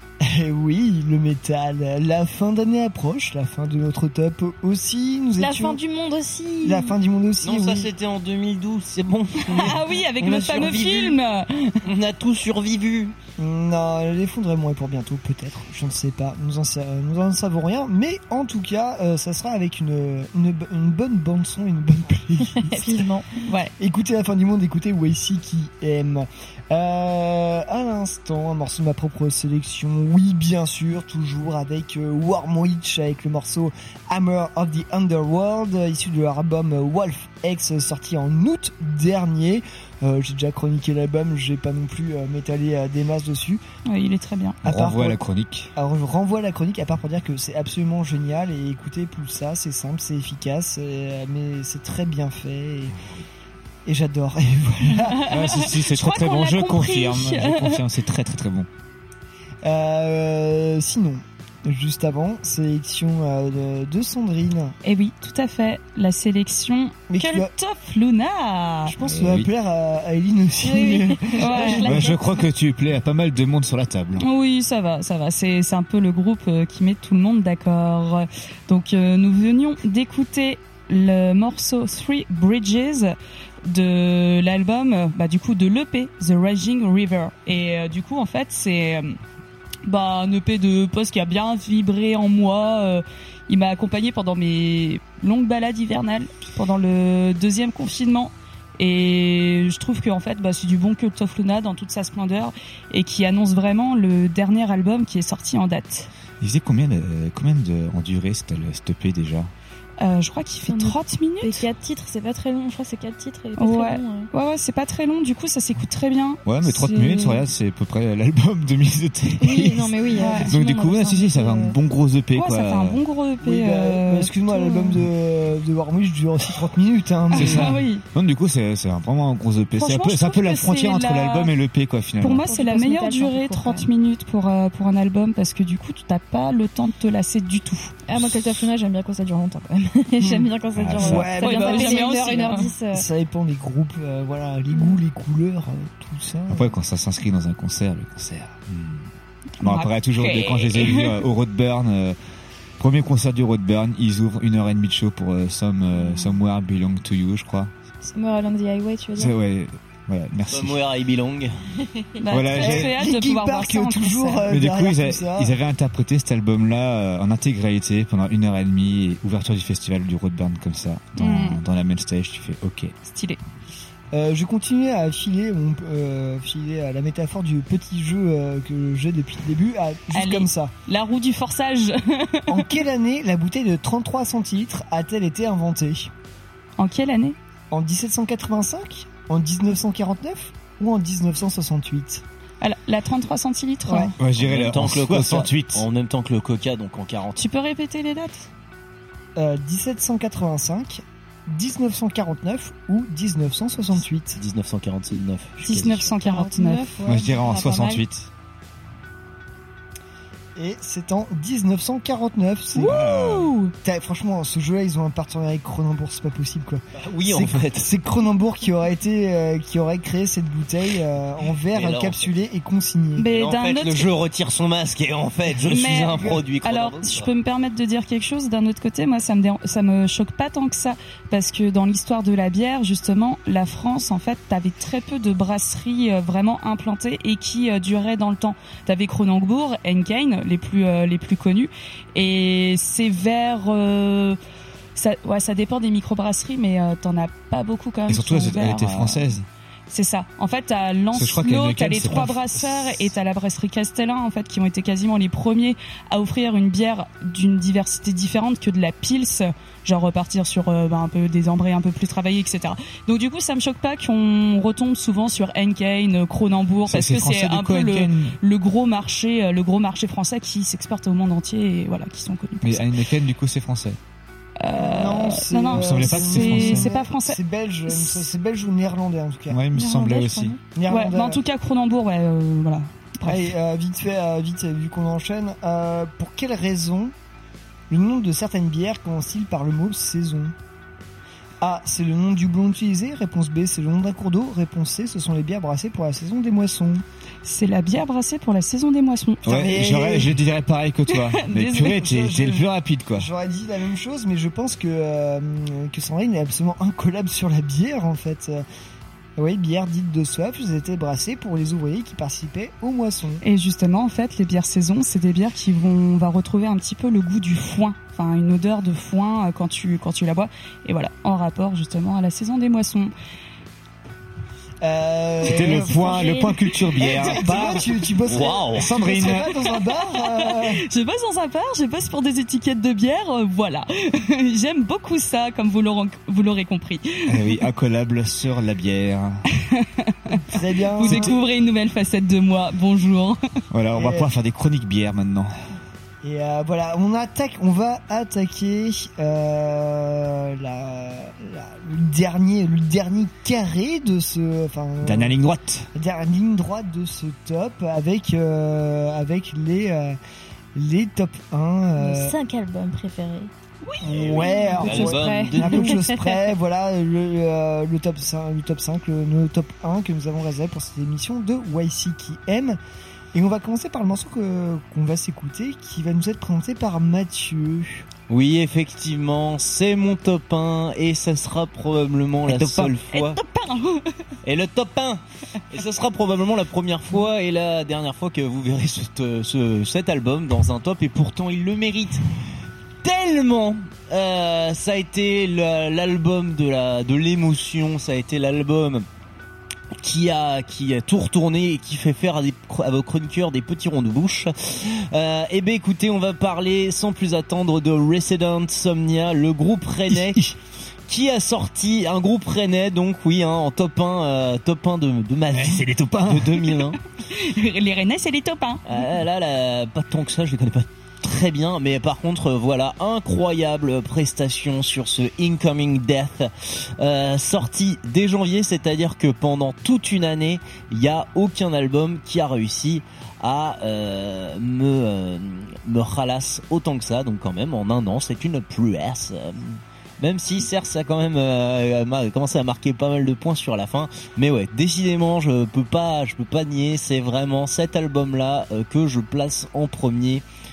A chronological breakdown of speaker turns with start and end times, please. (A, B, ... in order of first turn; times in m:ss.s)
0:00.2-0:05.8 A
0:05.4-0:07.0 B
0:06.6-0:07.9 A
0:07.4-0:11.2 C
0:09.5-0:11.8 D
0:11.8-0:13.1 C
0:13.4-0:23.1 A
0:22.5-0:23.4 B
0:23.4-0:23.7 D
0:23.8-0:43.6 A
0:43.8-0:44.6 D
0:44.6-0:45.7 E
0:44.6-0:45.2 A
0:45.7-0:53.0 A
0:53.8-0:55.3 A
0:55.1-0:57.8 D
0:55.3-0:58.7 E
0:59.6-1:04.7 A
1:04.8-1:08.9 D
1:07.1-1:07.5 A
1:08.8-1:11.9 A
1:09.0-1:09.5 E
1:10.6-1:12.2 B
1:11.3-1:12.0 D
1:11.8-1:14.2 E
1:14.2-1:29.2 D
1:29.8-1:46.1 D
1:46.4-1:49.5 E
1:50.0-1:51.6 D
1:50.7-1:54.3 B
1:53.6-1:57.4 D
1:56.4-2:03.0 E
1:59.4-2:01.7 B
2:00.2-2:00.5 A
2:02.3-2:04.8 D
2:03.4-2:07.7 A
2:07.3-2:08.0 D
2:07.3-2:12.5 E
2:09.8-2:11.5 D
2:12.2-2:18.0 D
2:12.2-2:13.9 B
2:18.1-2:23.0 B
2:18.1-2:18.6 E
2:20.2-2:26.7 A
2:20.7-2:21.3 E
2:21.4-2:22.7 D
2:24.7-2:25.0 B
2:26.5-2:29.1 E
2:29.6-2:31.1 D
2:29.6-2:32.2 E
2:32.8-2:37.7 E
2:38.1-2:39.3 B
2:39.2-2:40.8 E
2:40.4-2:41.6 C
2:42.2-2:44.4 D
2:42.3-2:42.9 E
2:42.6-2:45.5 A
2:44.5-2:52.9 E
2:51.2-2:51.6 D
2:53.0-2:53.4 D
2:54.1-3:00.7 A
3:00.1-3:02.5 D
3:02.5-3:06.1 A
3:06.8-3:07.4 D
3:07.7-3:12.2 A
3:12.6-3:14.1 D
3:13.8-3:14.1 A
3:14.2-3:15.8 E
3:14.4-3:17.5 C
3:17.4-3:18.5 D
3:19.4-3:24.4 A
3:24.3-3:26.1 C
3:25.6-3:26.9 D
3:26.2-3:28.0 B
3:27.0-3:28.3 E
3:30.6-3:33.0 A
3:32.8-3:33.7 D
3:32.8-3:33.5 E
3:33.8-3:43.3 A
3:37.0-3:37.9 C
3:41.7-3:42.4 C
3:43.2-3:44.1 D
3:43.2-3:47.3 C
3:45.7-4:04.4 D
4:05.0-4:09.3 D
4:08.1-4:09.4 E
4:09.9-4:32.9 D
4:11.1-4:13.1 E
4:26.9-4:28.4 E
4:32.6-4:34.0 E
4:34.6-4:38.2 D
4:34.7-4:39.6 A
4:35.7-4:36.9 E
4:39.5-4:40.6 E
4:39.7-4:40.6 B
4:40.7-4:41.4 A
4:40.9-4:43.5 D
4:43.2-4:47.1 A
4:47.9-4:50.5 A
4:51.6-4:57.0 A
4:57.4-4:59.4 D
4:59.4-5:03.3 E
4:59.5-5:00.4 A
5:01.1-5:02.0 D
5:01.9-5:08.6 A
5:09.4-5:13.4 A
5:13.4-5:23.1 D
5:24.8-5:26.2 A
5:25.4-5:27.8 E
5:25.6-5:26.6 B
5:27.2-5:30.8 A
5:28.3-5:28.9 C
5:28.7-5:29.5 E
5:30.7-5:37.6 D
5:37.3-5:39.4 E
5:39.8-5:40.4 D
5:40.5-5:41.3 A
5:40.9-5:43.4 D
5:41.0-5:41.3 E
5:43.7-5:45.5 E
5:44.0-5:44.3 A
5:46.2-5:55.3 A
5:55.0-5:55.9 E
5:55.9-6:00.2 A
6:00.7-6:02.4 A
6:02.0-6:03.5 B
6:04.0-6:12.8 A
6:04.2-6:05.9 C
6:04.3-6:06.4 B
6:13.3-6:18.0 A
6:18.3-6:23.4 C
6:22.4-6:22.9 E
6:23.1-6:24.0 D
6:24.4-6:32.2 C
6:33.0-6:39.0 C
6:39.9-6:50.5 C
6:51.1-6:57.0 C
6:55.5-6:56.6 E
6:57.3-6:58.8 D
6:58.8-7:30.4 C